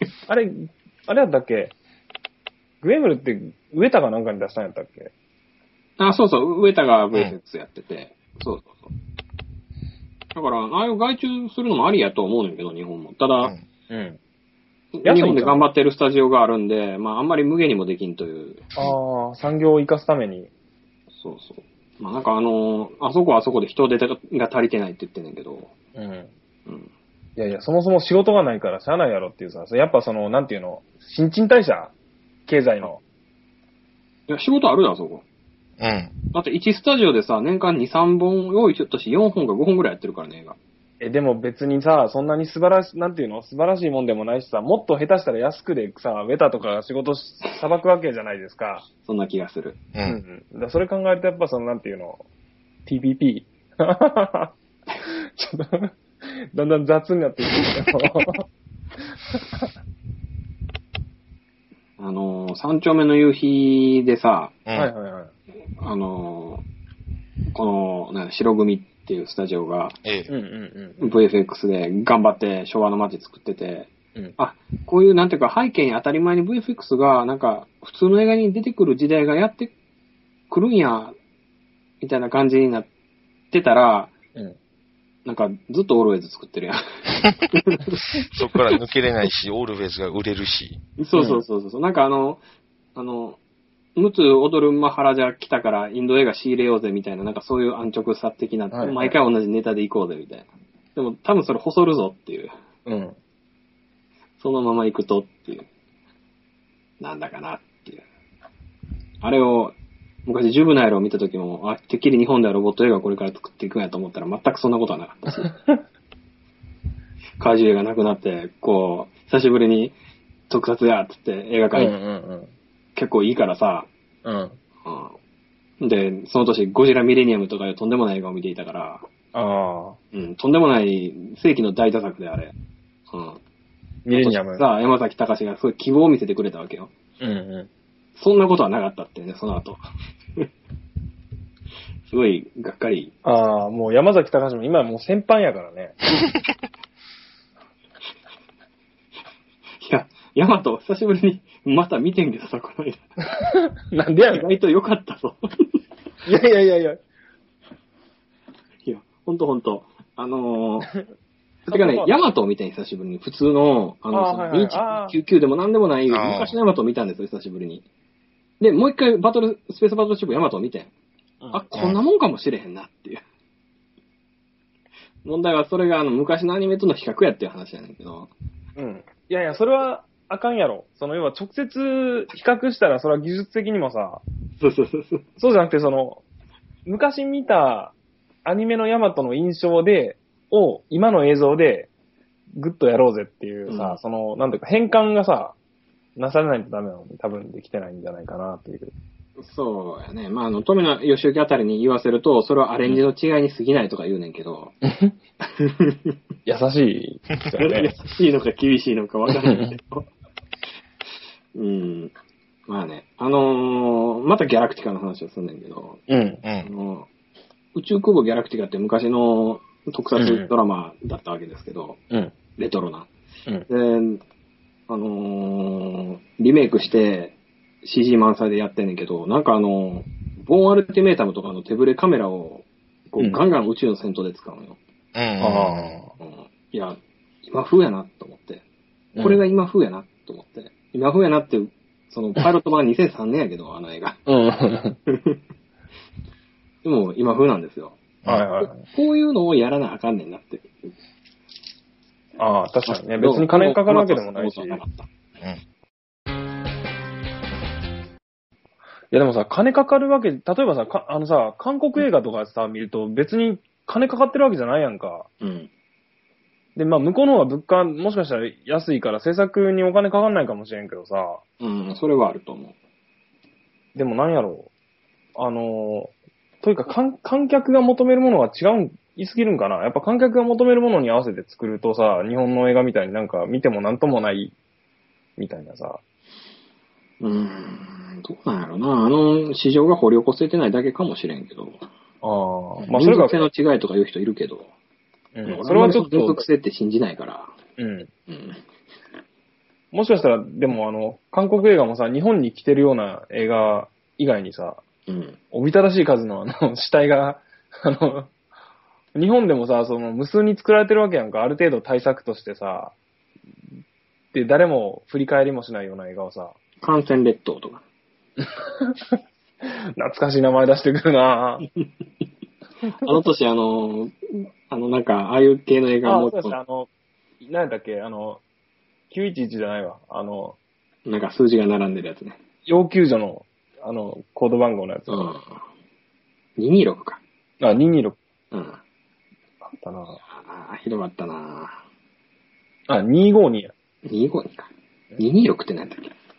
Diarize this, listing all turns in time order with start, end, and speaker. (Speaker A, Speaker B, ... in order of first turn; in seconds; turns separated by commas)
Speaker A: 0.3-1.8, Speaker A: 2.8-5.1, Speaker B: 6.0-8.9, Speaker B: 10.3-13.5, Speaker A: 13.9-14.2, Speaker B: 14.9-18.8, Speaker A: 15.0-15.6, Speaker A: 18.8-20.5, Speaker B: 21.2-25.7, Speaker A: 25.9-26.3, Speaker A: 27.4-31.9, Speaker A: 32.5-33.0, Speaker B: 34.3-35.2, Speaker C: 35.8-36.2, Speaker B: 36.3-40.6, Speaker A: 41.0-48.9, Speaker B: 49.0-49.8, Speaker C: 49.9-50.2, Speaker A: 50.0-52.2, Speaker A: 52.9-54.5, Speaker A: 55.0-55.9, Speaker A: 56.5-58.5, Speaker A: 59.3-59.7, Speaker B: 62.0-64.6, Speaker C: 64.7-64.9, Speaker A: 64.7-65.3, Speaker B: 65.8-66.6, Speaker B: 67.5-70.0, Speaker C: 70.0-70.3, Speaker A: 70.3-71.1, Speaker B: 71.0-79.7, Speaker B: 80.5-81.1, Speaker B: 82.0-82.9, Speaker B: 83.5-84.1, Speaker B: 85.2-87.0, Speaker B: 87.5-88.0, Speaker C: 88.3-90.8, Speaker B: 91.0-92.4, Speaker A: 91.2-91.4, Speaker B: 93.0-93.4, Speaker B: 94.0-102.5, Speaker A: 98.7-99.2, Speaker A: 102.9-103.2, Speaker B: 104.4-105.7, Speaker B: 107.0-108.0, Speaker B: 109.2-109.7, Speaker B: 110.2-115.5, Speaker B: 117.4-120.0, Speaker B: 120.5-121.9, Speaker A: 121.7-122.5, Speaker B: 123.0-123.9, Speaker A: 124.2-124.6, Speaker B: 124.8-125.2, Speaker B: 125.8-129.0, Speaker A: 129.3-130.0, Speaker B: 130.1-132.5, Speaker B: 133.1-133.4, Speaker A: 134.0-134.6, Speaker B: 134.1-136.9, Speaker A: 137.2-137.7, Speaker B: 138.2-139.8, Speaker B: 142.1-143.1, Speaker A: 143.2-146.0, Speaker B: 149.8-153.1, Speaker A: 153.4-154.5, Speaker B: 154.2-155.4, Speaker A: 156.2-157.0, Speaker B: 158.8-160.9, Speaker A: 161.7-162.1, Speaker B: 161.7-167.9, Speaker A: 164.1-165.2, Speaker C: 166.1-166.6, Speaker B: 168.6-170.9, Speaker A: 171.4-171.9, Speaker B: 171.5-173.2, Speaker B: 175.2-178.3, Speaker A: 178.8-184.2, Speaker B: 184.6-185.2, Speaker A: 185.4-186.2, Speaker A: 186.9-187.9, Speaker A: 188.4-191.9, Speaker A: 192.6-195.6, Speaker B: 193.7-194.0, Speaker A: 196.2-198.9, Speaker B: 199.4-204.8, Speaker A: 204.8-205.1, Speaker B: 205.6-206.1, Speaker A: 206.5-207.9, Speaker B: 207.5-210.0, Speaker A: 209.4-209.7, Speaker B: 211.5-212.1, Speaker B: 212.7-216.0, Speaker A: 216.1-216.4, Speaker C: 216.4-216.7, Speaker B: 216.6-217.1, Speaker B: 217.7-222.0, Speaker A: 220.2-220.5, Speaker B: 222.6-223.1, Speaker B: 223.7-224.2, Speaker B: 224.9-234.8, Speaker C: 235.1-236.1, Speaker A: 235.4-236.1, Speaker B: 236.2-238.6, Speaker A: 239.2-239.4, Speaker B: 239.2-244.2, Speaker A: 244.3-245.0, Speaker B: 245.1-245.4, Speaker B: 246.8-248.0, Speaker A: 248.2-248.8, Speaker B: 248.8-250.7, Speaker A: 252.4-254.8, Speaker B: 252.9-255.1, Speaker A: 259.1-265.3, Speaker B: 265.4-265.7, Speaker A: 266.8-271.4, Speaker B: 271.6-272.7, Speaker A: 274.0-274.7, Speaker A: 275.4-284.5, Speaker A: 285.4-286.0, Speaker B: 287.2-291.8, Speaker A: 292.2-293.5, Speaker B: 292.9-294.7, Speaker A: 295.4-296.4, Speaker B: 295.5-297.5, Speaker A: 297.8-298.1, Speaker B: 298.3-298.6, Speaker A: 299.9-304.8, Speaker B: 305.1-305.4, Speaker A: 305.5-308.3, Speaker A: 309.1-312.9, Speaker A: 314.3-316.5, Speaker B: 316.8-317.8, Speaker A: 318.4-321.7, Speaker A: 322.9-323.2, Speaker B: 323.0-326.6, Speaker A: 326.0-326.9, Speaker A: 327.4-328.4, Speaker A: 329.1-330.6, Speaker B: 331.1-332.4, Speaker A: 332.7-335.4, Speaker B: 335.1-335.5, Speaker B: 336.6-337.2, Speaker A: 337.6-338.2, Speaker B: 338.5-338.8, Speaker A: 339.6-340.2, Speaker B: 340.3-341.8, Speaker A: 342.9-343.7, Speaker B: 344.1-346.1